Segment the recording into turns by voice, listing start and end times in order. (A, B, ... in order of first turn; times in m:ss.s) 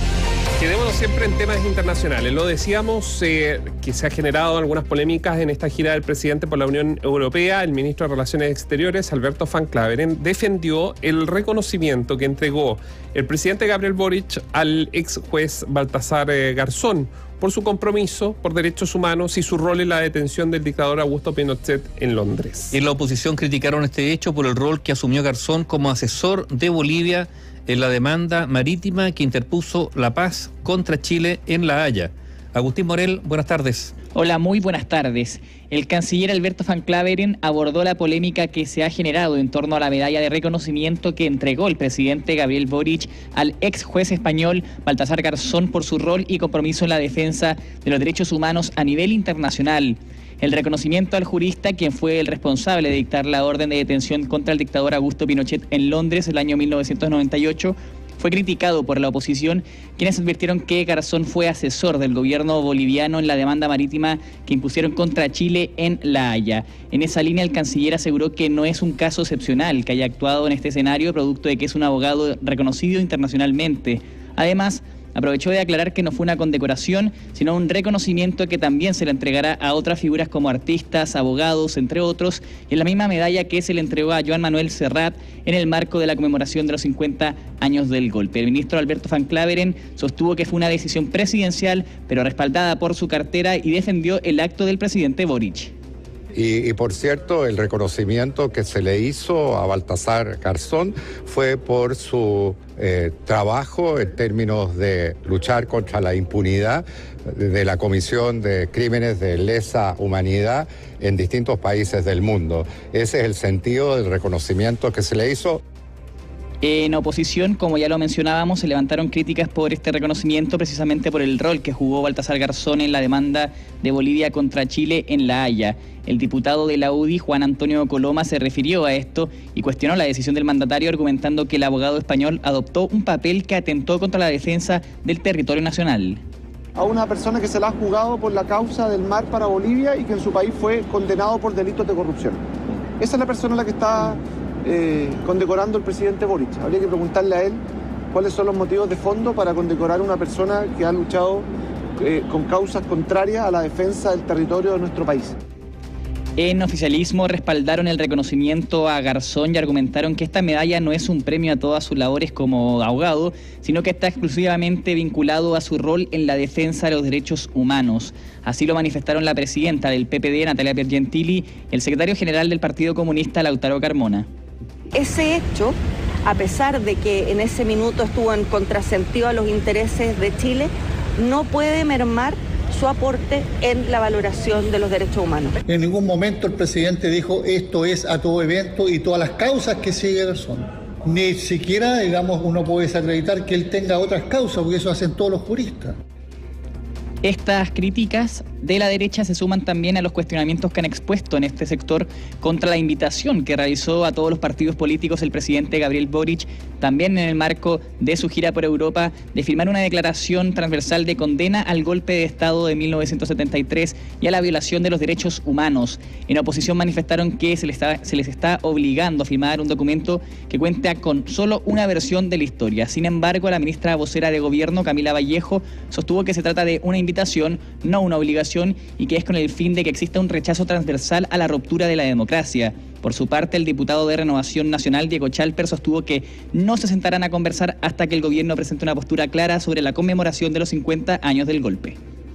0:00.6-0:22.8 A
0:22.7-0:33.9 B
0:34.1-1:35.7 C
1:36.4-1:55.6 D
1:56.6-2:16.2 C
2:16.8-2:22.4 E
2:23.0-2:27.6 E
2:28.1-2:31.5 E
2:32.0-2:35.4 E
2:36.4-2:54.3 C
2:54.9-3:05.6 F
3:05.7-3:16.0 G
3:17.2-4:02.0 C